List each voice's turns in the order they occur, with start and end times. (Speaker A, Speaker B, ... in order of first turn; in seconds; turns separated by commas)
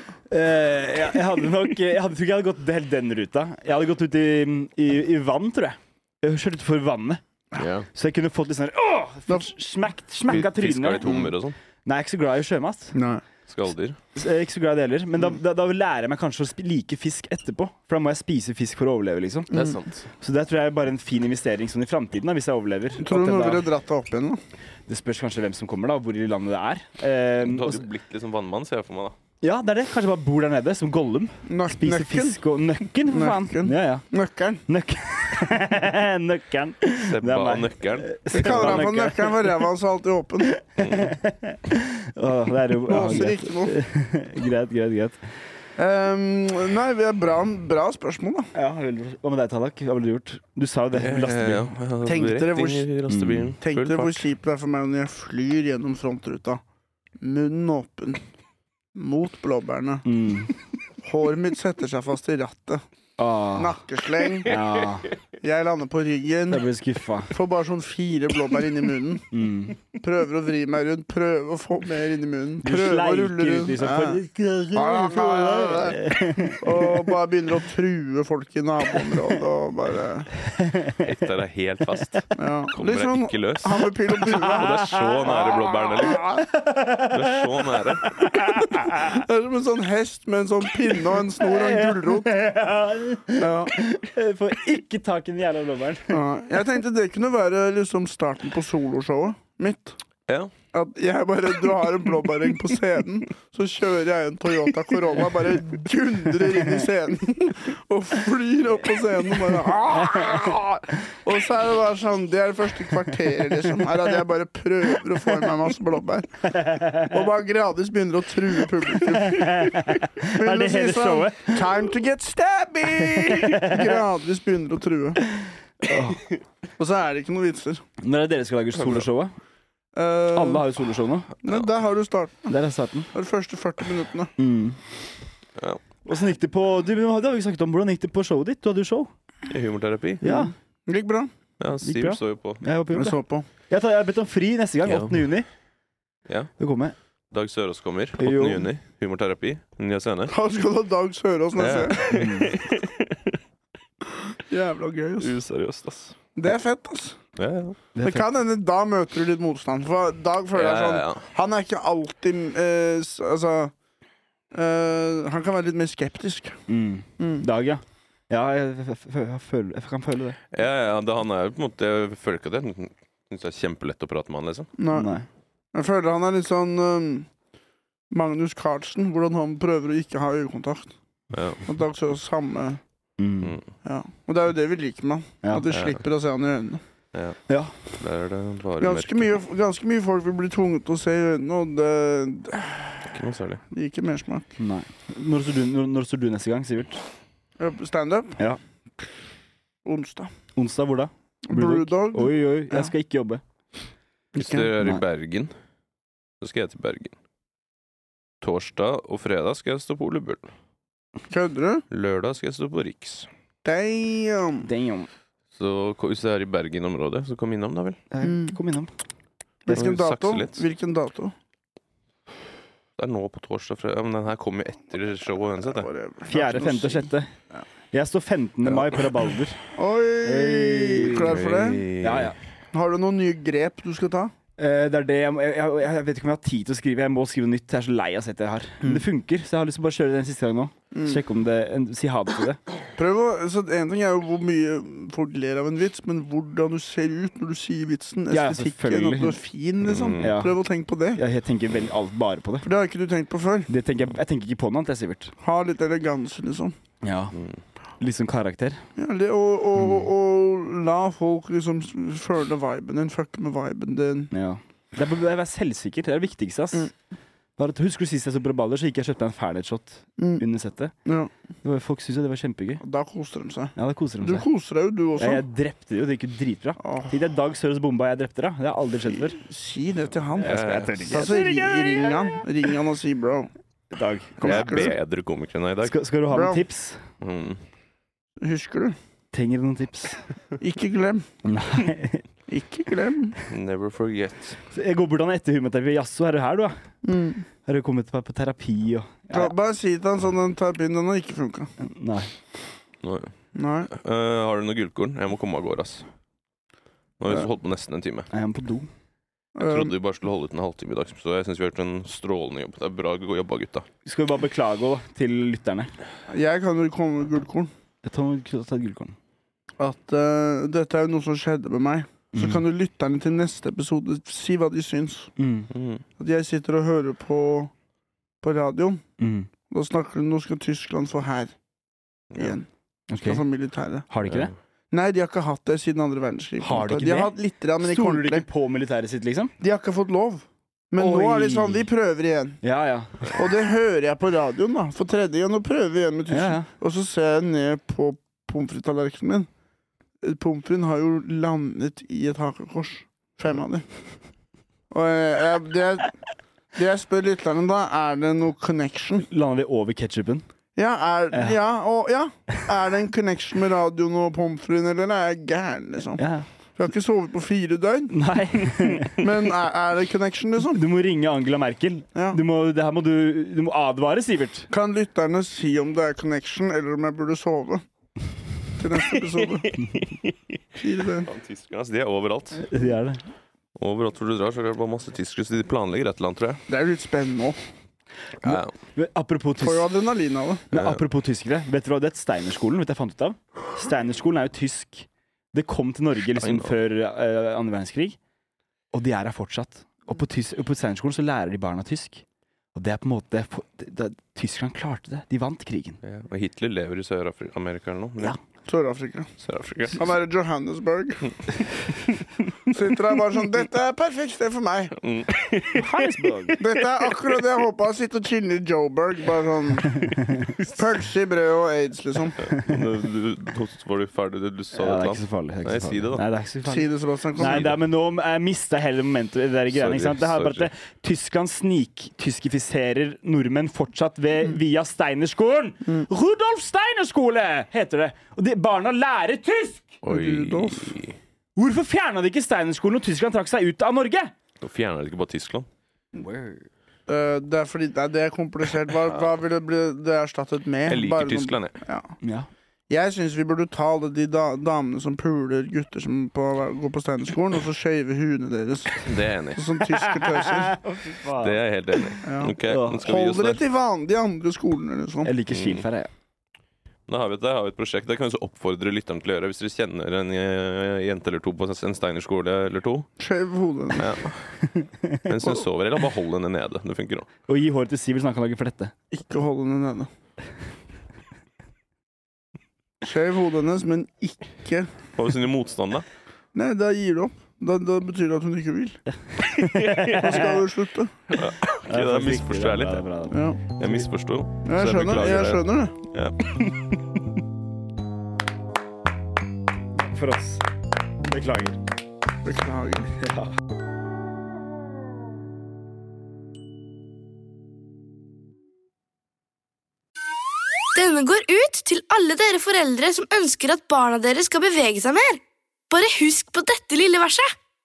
Speaker A: 0.3-7.2, Speaker B: 7.6-7.9, Speaker A: 7.9-11.3, Speaker B: 10.3-11.6, Speaker C: 11.0-11.3, Speaker A: 11.8-13.0, Speaker C: 12.9-13.2, Speaker B: 13.5-14.0, Speaker A: 14.2-19.5, Speaker C: 19.5-19.8, Speaker B: 19.5-20.1, Speaker A: 20.2-23.7, Speaker C: 23.0-24.4, Speaker A: 24.9-27.9, Speaker B: 27.4-29.2, Speaker A: 29.4-34.0, Speaker C: 31.5-32.4, Speaker C: 33.1-34.6, Speaker A: 34.7-39.7, Speaker B: 37.1-38.9, Speaker C: 38.3-40.5, Speaker A: 40.5-45.2, Speaker B: 40.8-41.2, Speaker C: 42.9-43.7, Speaker C: 45.8-48.5, Speaker A: 48.5-51.7, Speaker B: 50.9-54.3, Speaker C: 52.0-52.9, Speaker A: 53.1-53.5, Speaker C: 53.6-56.6, Speaker C: 57.2-58.2, Speaker C: 59.0-60.1, Speaker A: 60.0-60.5, Speaker C: 61.0-62.8, Speaker A: 63.2-63.8, Speaker C: 63.6-64.6, Speaker A: 64.5-65.1, Speaker C: 65.4-66.7, Speaker A: 66.5-67.4, Speaker C: 67.3-69.2, Speaker A: 69.3-69.8, Speaker C: 69.9-80.3, Speaker A: 72.6-77.0, Speaker A: 80.4-81.1, Speaker B: 81.0-86.2, Speaker C: 82.4-86.5, Speaker A: 84.3-85.3, Speaker A: 86.1-89.2, Speaker B: 87.1-88.1, Speaker C: 88.6-92.3, Speaker A: 91.4-96.2, Speaker C: 93.4-93.8, Speaker C: 96.1-100.0, Speaker C: 100.7-116.3, Speaker A: 116.5-117.2, Speaker C: 116.9-125.2, Speaker A: 118.9-121.6, Speaker A: 122.9-124.0, Speaker A: 125.4-126.2, Speaker C: 126.8-127.8, Speaker A: 128.0-129.3, Speaker B: 128.8-129.1, Speaker C: 129.9-130.7, Speaker A: 130.3-131.3, Speaker C: 131.4-132.5, Speaker A: 132.5-133.1, Speaker C: 133.1-134.3, Speaker A: 134.4-134.8, Speaker B: 135.6-135.8, Speaker A: 136.1-139.1, Speaker B: 139.5-140.2, Speaker A: 140.2-140.5, Speaker C: 140.2-141.3, Speaker B: 141.6-142.6, Speaker A: 141.8-143.2, Speaker C: 142.9-143.5, Speaker A: 143.7-145.5, Speaker B: 144.9-145.3, Speaker A: 146.6-146.9, Speaker B: 147.3-150.3, Speaker A: 148.2-148.7, Speaker C: 150.3-152.2, Speaker B: 151.6-153.4, Speaker A: 152.1-152.5, Speaker C: 154.5-155.3, Speaker B: 155.2-156.2, Speaker C: 156.4-157.2, Speaker B: 157.4-157.8, Speaker A: 158.0-158.3, Speaker C: 158.0-163.7, Speaker B: 160.5-161.3, Speaker C: 164.5-166.6, Speaker A: 166.7-170.4, Speaker C: 167.2-167.4, Speaker B: 170.5-174.7, Speaker C: 174.8-175.2, Speaker A: 174.9-175.3, Speaker C: 175.7-177.3, Speaker C: 178.1-180.9, Speaker B: 181.3-181.6, Speaker C: 181.6-182.8, Speaker A: 183.2-183.6, Speaker C: 183.8-186.8, Speaker B: 185.7-186.0, Speaker A: 187.5-187.7, Speaker B: 187.9-189.3, Speaker C: 188.8-193.2, Speaker B: 193.1-193.6, Speaker C: 193.7-194.5, Speaker A: 194.6-197.0, Speaker C: 197.6-198.4, Speaker C: 199.8-200.3, Speaker A: 200.6-203.4, Speaker C: 201.5-202.9, Speaker C: 204.3-204.7, Speaker B: 204.4-205.5, Speaker B: 206.4-207.2, Speaker B: 208.4-210.5, Speaker C: 211.3-211.8, Speaker B: 211.9-213.3, Speaker C: 213.7-214.7, Speaker A: 214.6-215.1, Speaker B: 215.5-218.0, Speaker A: 218.1-218.9, Speaker C: 218.2-218.6, Speaker C: 219.7-221.3, Speaker B: 219.7-220.6, Speaker B: 223.0-225.9, Speaker C: 225.6-227.1, Speaker A: 226.3-227.3, Speaker A: 227.9-229.6, Speaker C: 229.8-231.9, Speaker A: 230.2-231.3, Speaker B: 231.1-232.3, Speaker A: 232.0-232.4, Speaker C: 232.7-234.3, Speaker A: 234.6-242.6, Speaker C: 240.9-241.2, Speaker C: 243.0-251.2, Speaker A: 248.3-249.4, Speaker B: 249.8-250.3, Speaker A: 250.2-250.6, Speaker A: 251.2-252.7, Speaker C: 252.6-253.7, Speaker A: 253.7-255.3, Speaker C: 255.4-256.8, Speaker A: 257.0-257.4, Speaker B: 257.3-257.6, Speaker A: 258.0-258.8, Speaker C: 259.0-264.3, Speaker A: 264.3-266.9, Speaker A: 267.6-270.9, Speaker C: 270.2-270.4, Speaker C: 271.1-271.3, Speaker A: 271.6-272.8, Speaker C: 272.8-275.4, Speaker A: 273.8-274.5, Speaker A: 275.2-279.4, Speaker C: 276.8-277.1, Speaker C: 279.3-283.5, Speaker B: 280.4-281.2, Speaker A: 280.4-282.5, Speaker A: 283.9-284.9, Speaker C: 284.4-285.0, Speaker B: 284.4-286.1, Speaker A: 285.8-287.0, Speaker C: 286.3-286.6, Speaker B: 287.2-287.6, Speaker C: 288.4-289.0, Speaker A: 289.3-290.2, Speaker C: 290.6-291.3, Speaker A: 291.4-292.2, Speaker C: 292.5-293.4, Speaker B: 293.5-294.6, Speaker A: 294.7-296.8, Speaker C: 297.0-297.4, Speaker A: 297.6-299.5, Speaker C: 299.3-301.7, Speaker A: 301.8-302.3, Speaker B: 303.0-303.3, Speaker C: 303.6-303.9, Speaker B: 303.9-306.1, Speaker B: 307.2-308.3, Speaker A: 308.3-308.9, Speaker C: 309.6-309.9, Speaker B: 309.6-313.9, Speaker A: 314.1-315.9, Speaker C: 316.3-317.7, Speaker A: 318.0-319.2, Speaker C: 319.8-325.3, Speaker A: 322.3-322.6, Speaker A: 325.4-325.7, Speaker B: 325.7-326.0, Speaker C: 326.2-327.7, Speaker C: 328.4-329.0, Speaker A: 329.2-329.5, Speaker C: 329.7-331.5, Speaker B: 332.3-332.6, Speaker C: 332.4-332.7, Speaker A: 333.1-333.4, Speaker C: 333.2-334.1, Speaker A: 334.1-334.5, Speaker B: 334.2-334.5, Speaker C: 334.9-338.5, Speaker A: 336.6-339.5, Speaker C: 339.6-342.6, Speaker A: 341.0-341.9, Speaker A: 342.6-343.3, Speaker C: 343.3-349.5, Speaker A: 346.3-346.7, Speaker C: 350.2-353.9, Speaker C: 354.9-356.1, Speaker C: 356.8-359.3, Speaker A: 359.2-360.5, Speaker C: 360.8-366.2, Speaker A: 361.3-361.6, Speaker A: 366.2-366.5, Speaker C: 366.8-368.2, Speaker A: 368.1-369.3, Speaker C: 369.1-370.8, Speaker A: 370.7-374.7, Speaker C: 372.1-372.4, Speaker C: 374.7-377.8, Speaker C: 378.8-379.7, Speaker B: 379.6-380.6, Speaker C: 380.8-381.3, Speaker B: 381.2-382.7, Speaker A: 382.6-383.2, Speaker B: 383.8-386.6, Speaker C: 386.7-387.6, Speaker B: 388.4-388.7, Speaker A: 388.4-389.9, Speaker C: 389.6-390.6, Speaker A: 390.7-398.2, Speaker B: 390.7-391.0, Speaker B: 396.4-396.8, Speaker A: 398.9-402.2, Speaker A: 402.8-406.0, Speaker B: 406.0-408.4, Speaker C: 408.7-409.3, Speaker B: 409.4-410.1, Speaker C: 409.9-411.3, Speaker C: 412.7-415.0, Speaker B: 415.0-415.9, Speaker A: 415.7-416.6, Speaker B: 416.5-417.4, Speaker C: 416.6-420.1, Speaker B: 420.5-420.7, Speaker C: 420.6-422.4, Speaker B: 422.4-426.2, Speaker A: 422.5-422.8, Speaker A: 424.7-440.0, Speaker C: 426.6-427.7, Speaker B: 427.5-427.7, Speaker B: 429.7-430.7, Speaker B: 440.0-441.2, Speaker C: 440.1-441.0, Speaker A: 441.6-444.3, Speaker B: 444.6-445.7, Speaker A: 446.2-446.7, Speaker C: 447.1-452.1, Speaker B: 450.9-451.8, Speaker A: 452.2-452.5, Speaker C: 452.9-460.8, Speaker B: 459.0-459.6, Speaker A: 459.9-463.0, Speaker B: 461.4-463.6, Speaker C: 462.2-465.3, Speaker A: 465.2-466.1, Speaker B: 465.5-465.9, Speaker B: 467.1-473.1, Speaker C: 473.2-474.1, Speaker B: 474.0-474.5, Speaker A: 474.7-475.2, Speaker B: 475.2-477.3, Speaker A: 477.5-478.9, Speaker C: 479.1-480.1, Speaker C: 483.0-484.9, Speaker B: 485.2-486.1, Speaker C: 486.5-489.0, Speaker A: 489.4-490.6, Speaker B: 489.6-490.4, Speaker C: 490.1-491.2, Speaker B: 491.3-493.0, Speaker A: 491.9-494.1, Speaker C: 493.3-493.6, Speaker B: 493.8-496.4, Speaker C: 494.6-496.0, Speaker A: 500.0-500.6, Speaker A: 501.2-501.8, Speaker C: 502.4-503.1, Speaker D: 510.9-517.5